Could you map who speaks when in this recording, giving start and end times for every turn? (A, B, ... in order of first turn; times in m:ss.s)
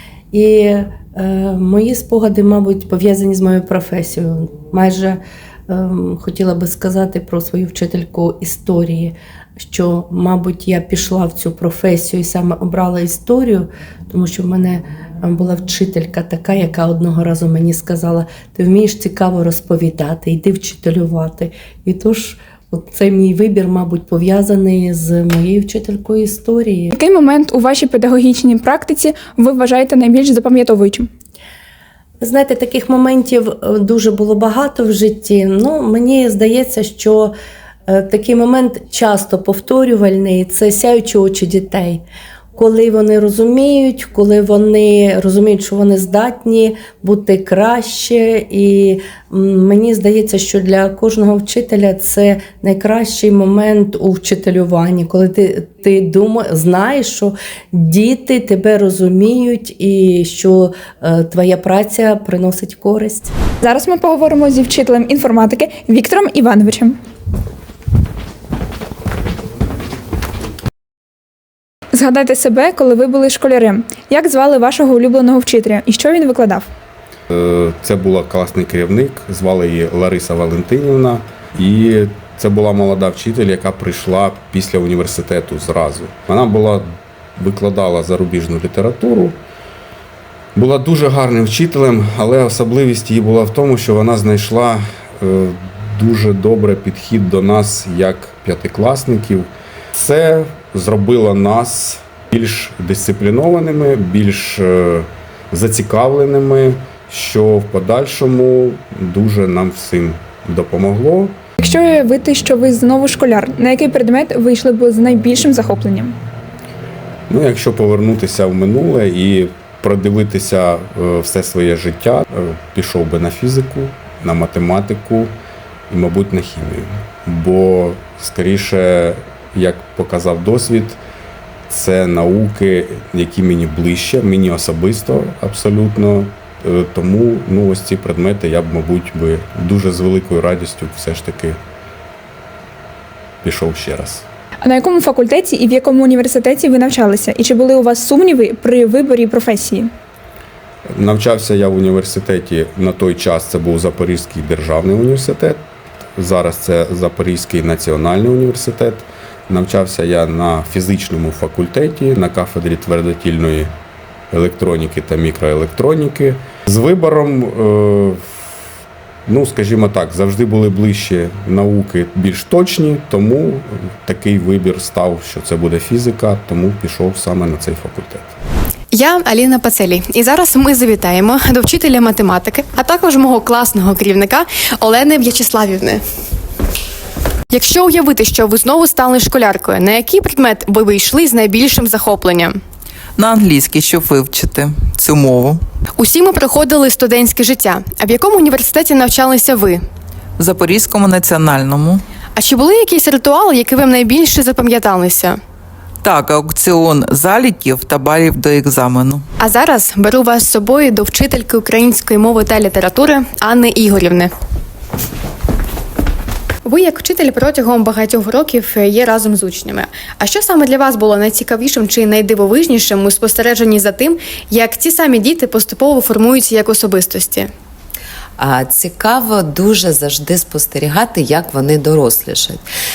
0:00.3-0:26.9 A
0:26.9-0:31.1 B
0:32.2-0:37.3 A
0:37.9-0:42.0 A
0:42.6-1:03.3 A
1:03.6-1:07.0 B
1:11.9-1:16.7 B
1:17.3-1:26.8 C
1:27.4-1:29.4 C
1:30.6-1:51.4 C
1:51.6-1:56.2 B
1:57.3-2:05.3 C
2:05.9-2:11.0 C
2:11.7-2:21.6 C
2:23.4-2:24.2 C
2:24.6-2:29.9 B
2:31.0-2:35.6 C
2:36.2-2:43.7 C
2:44.3-2:48.2 C
2:49.3-2:58.3 C
2:58.9-3:06.0 D
3:07.5-3:12.5 D
3:13.2-3:15.6 E
3:16.0-3:19.8 D
3:20.4-3:22.0 E
3:22.4-3:25.3 D
3:26.0-3:29.2 E
3:29.4-3:34.3 D
3:36.7-3:47.4 D
3:48.4-3:52.6 F